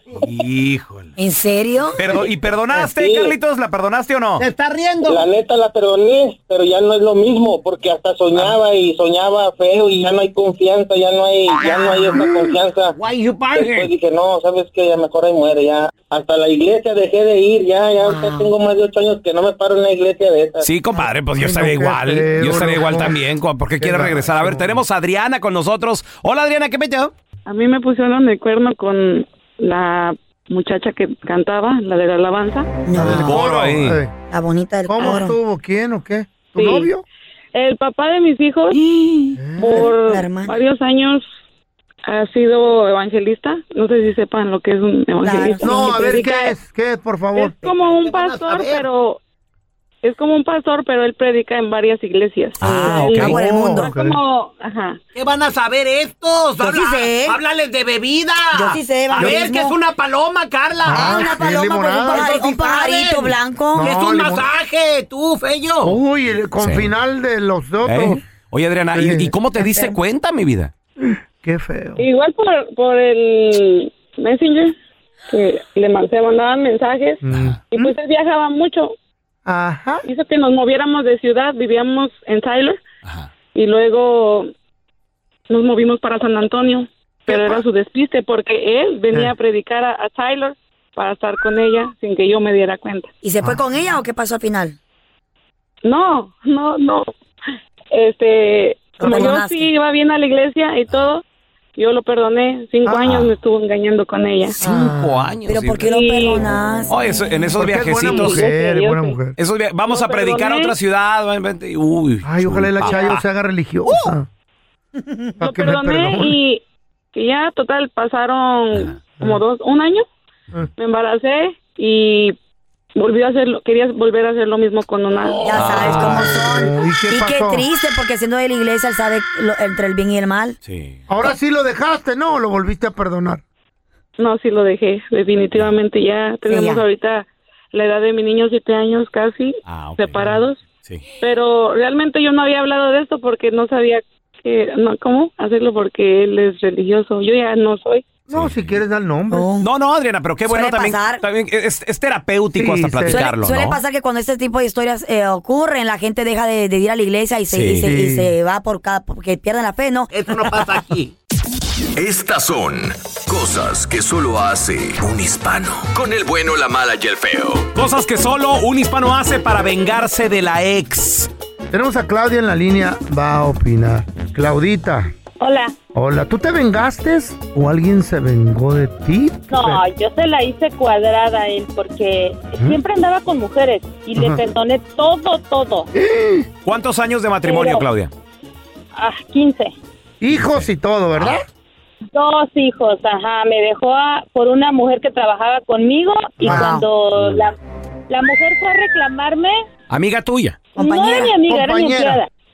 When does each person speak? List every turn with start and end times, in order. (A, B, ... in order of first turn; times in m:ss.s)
0:00.2-0:01.1 A
0:01.2-0:02.0 B
0:02.0-0:04.4 A
0:02.8-0:03.3 C
0:04.4-0:05.2 D
0:05.0-0:13.0 C
0:11.5-0:12.2 B
0:13.0-0:13.9 D
0:13.5-0:20.6 C
0:18.0-0:18.5 B
0:20.6-0:27.1 A
0:21.2-0:23.2 E
0:23.8-0:24.8 E
0:27.5-0:32.7 F
0:32.8-0:33.5 B
0:32.9-0:34.1 E
0:33.0-0:34.0 A
0:34.3-0:35.4 B
0:34.9-0:37.0 E
0:36.5-0:36.9 F
0:37.5-0:38.8 F
0:38.7-0:40.6 B
0:39.4-0:39.9 E
0:39.6-0:41.2 F
0:42.0-0:46.6 F
0:45.2-0:46.2 B
0:45.6-0:47.5 E
0:47.3-0:49.2 F
0:47.6-0:48.9 D
0:50.0-0:55.0 F
0:52.6-0:53.4 A
0:52.6-0:53.9 B
0:52.9-0:54.2 E
0:55.1-1:01.3 D
0:56.6-0:57.4 B
0:58.5-0:59.8 B
0:59.1-0:59.4 A
0:59.2-0:59.4 E
1:00.8-1:02.6 E
1:00.9-1:03.9 B
1:02.1-1:06.0 D
1:03.7-1:04.5 E
1:05.8-1:08.2 E
1:06.6-1:06.9 A
1:07.8-1:10.7 A
1:08.9-1:09.3 E
1:09.6-1:09.9 B
1:11.0-1:12.0 E
1:12.0-1:14.7 F
1:15.3-1:18.9 F
1:17.2-1:17.9 E
1:17.3-1:17.6 A
1:19.4-1:20.0 E
1:20.0-1:22.8 F
1:23.5-1:24.5 F
1:25.5-1:33.1 F
1:27.3-1:27.6 E
1:33.2-1:34.8 B
1:35.8-1:37.0 F
1:37.9-1:41.2 F
1:39.0-1:39.7 B
1:41.8-1:44.6 F
1:42.8-1:43.2 E
1:43.0-1:43.3 A
1:44.6-1:45.4 E
1:44.6-1:47.0 B
1:44.6-1:45.9 A
1:45.8-1:46.4 F
1:46.9-1:48.4 A
1:47.5-1:49.4 E
1:48.0-1:49.2 F
1:49.4-1:53.2 A
1:49.9-1:50.7 F
1:52.2-1:54.3 E
1:55.4-1:56.4 E
1:55.4-1:56.6 F
1:57.1-2:00.0 F
2:00.8-2:02.4 F
2:03.0-2:05.4 F
2:05.4-2:07.6 E
2:05.4-2:10.6 B
2:05.5-2:06.4 A
2:10.6-2:11.0 A
2:11.1-2:13.4 E
2:14.2-2:20.6 F
2:16.4-2:16.8 B
2:19.6-2:21.0 A
2:21.2-2:28.0 F
2:28.3-2:29.5 E
2:28.3-2:28.8 A
2:29.3-2:29.7 B
2:29.6-2:33.8 A
2:30.5-2:31.2 B
2:32.6-2:33.2 E
2:33.1-2:40.1 B
2:37.5-2:37.9 A
2:37.8-2:38.3 E
2:40.1-2:41.1 D
2:42.0-2:47.7 G
2:47.7-2:51.3 A
2:51.7-2:55.1 E
2:55.4-2:55.7 H
2:55.9-2:59.8 E
2:59.5-3:05.9 H
3:04.2-3:04.4 E
3:06.0-3:06.4 E
3:06.6-3:08.1 A
3:07.4-3:07.8 H
3:08.9-3:09.7 H
3:10.2-3:11.4 E
3:10.3-3:11.3 A
3:12.1-3:17.5 H
3:16.4-3:16.7 E
3:16.4-3:16.8 B
3:18.1-3:19.6 H
3:19.9-3:20.6 A
3:20.8-3:21.4 B
3:20.8-3:22.3 H
3:21.4-3:22.2 E